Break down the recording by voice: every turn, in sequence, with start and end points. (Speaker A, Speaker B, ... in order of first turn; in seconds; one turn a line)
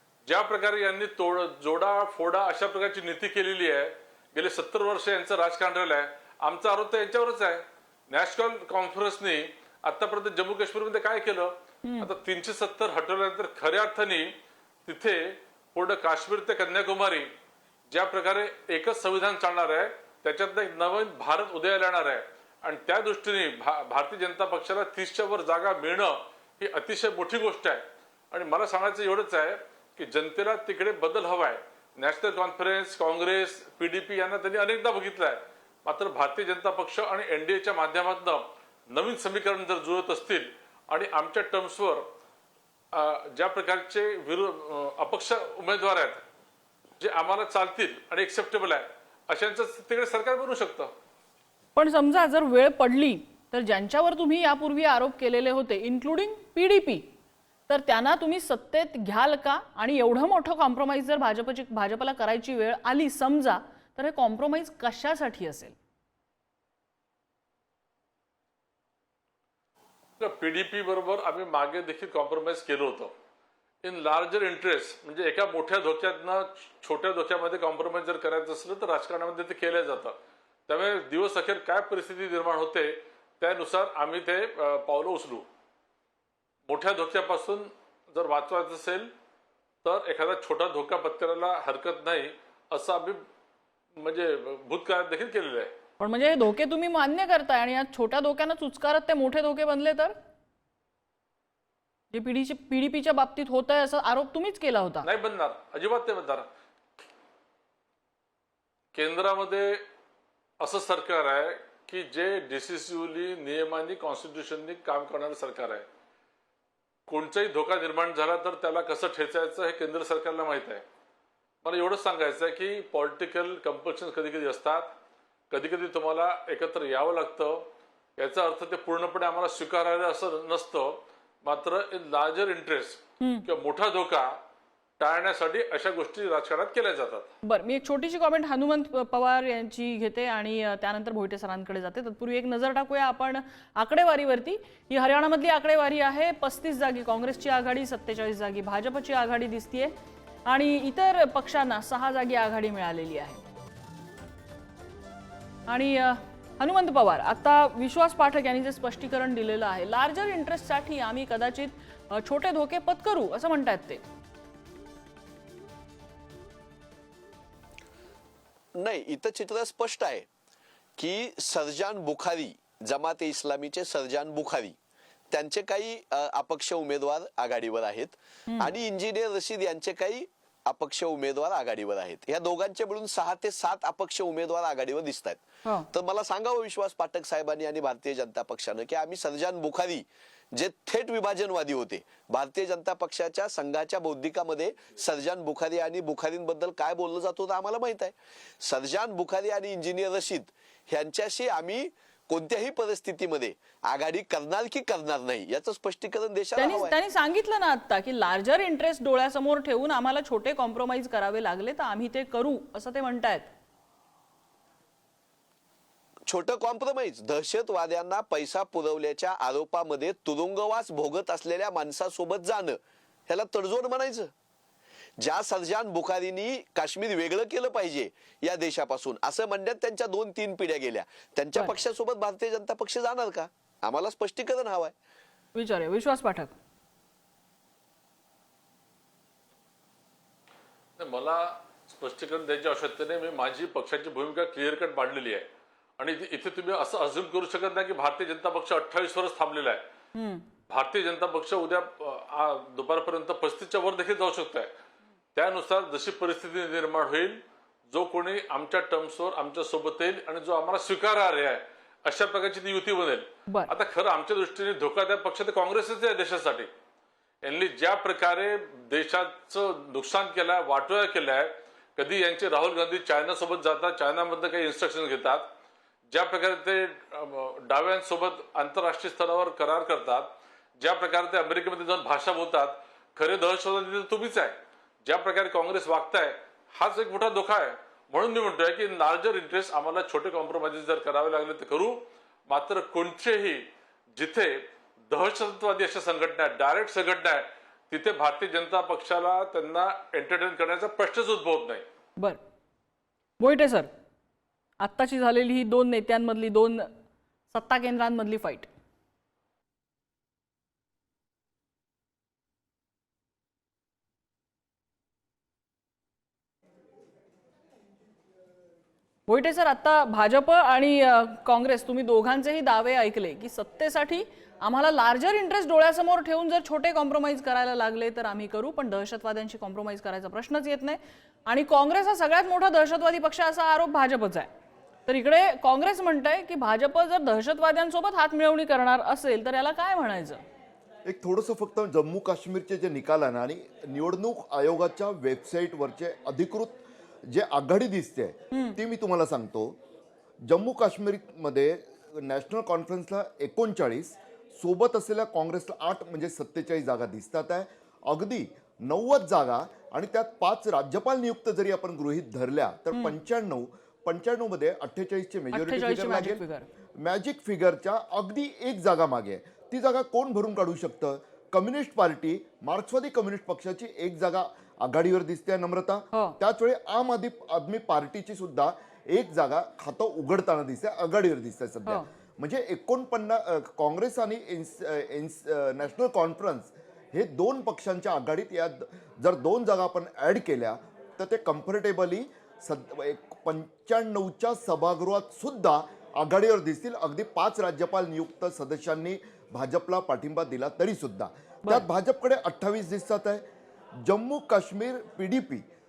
Speaker A: 0.3-14.3
Speaker B: 11.8-12.1
Speaker A: 14.8-17.3
Speaker A: 17.9-42.1
Speaker A: 42.9-46.2
Speaker A: 47.0-50.9
Speaker B: 51.8-57.1
Speaker B: 57.7-65.8
Speaker A: 70.2-73.1
Speaker A: 73.8-80.2
Speaker A: 80.7-85.5
Speaker A: 86.7-89.1
Speaker A: 89.8-93.2
Speaker A: 94.0-95.7
Speaker B: 96.0-100.2
Speaker B: 102.1-105.1
Speaker A: 105.0-106.5
Speaker A: 108.9-109.8
Speaker A: 110.6-115.8
Speaker A: 117.1-120.8
Speaker A: 121.6-124.9
Speaker A: 125.5-134.4
Speaker B: 133.2-133.5
Speaker A: 135.0-137.3
Speaker B: 137.4-149.9
Speaker B: 150.4-153.4
Speaker B: 155.7-164.0
Speaker C: 168.8-170.3
Speaker C: 171.0-174.8
Speaker C: 175.3-207.0
Speaker B: 178.5-178.7
Speaker B: 206.6-213.5
Speaker C: 216.3-224.3
Speaker C: 225.2-234.9
Speaker B: 235.6-236.6
Speaker A: 241.0-249.8
Speaker B: 250.1-250.4
Speaker A: 250.7-254.7
Speaker A: 255.3-266.7
Speaker A: 267.4-275.5
Speaker A: 276.1-284.5
Speaker A: 285.1-294.6
Speaker A: 295.1-301.8
Speaker B: 303.4-303.9
Speaker B: 304.8-306.9
Speaker B: 307.5-308.7
Speaker B: 319.3-334.5
Speaker B: 335.1-340.4
Speaker D: 341.1-349.8
Speaker B: 348.5-348.8
Speaker D: 350.4-366.4
Speaker B: 365.5-366.7
Speaker D: 367.0-403.4
Speaker D: 404.0-405.6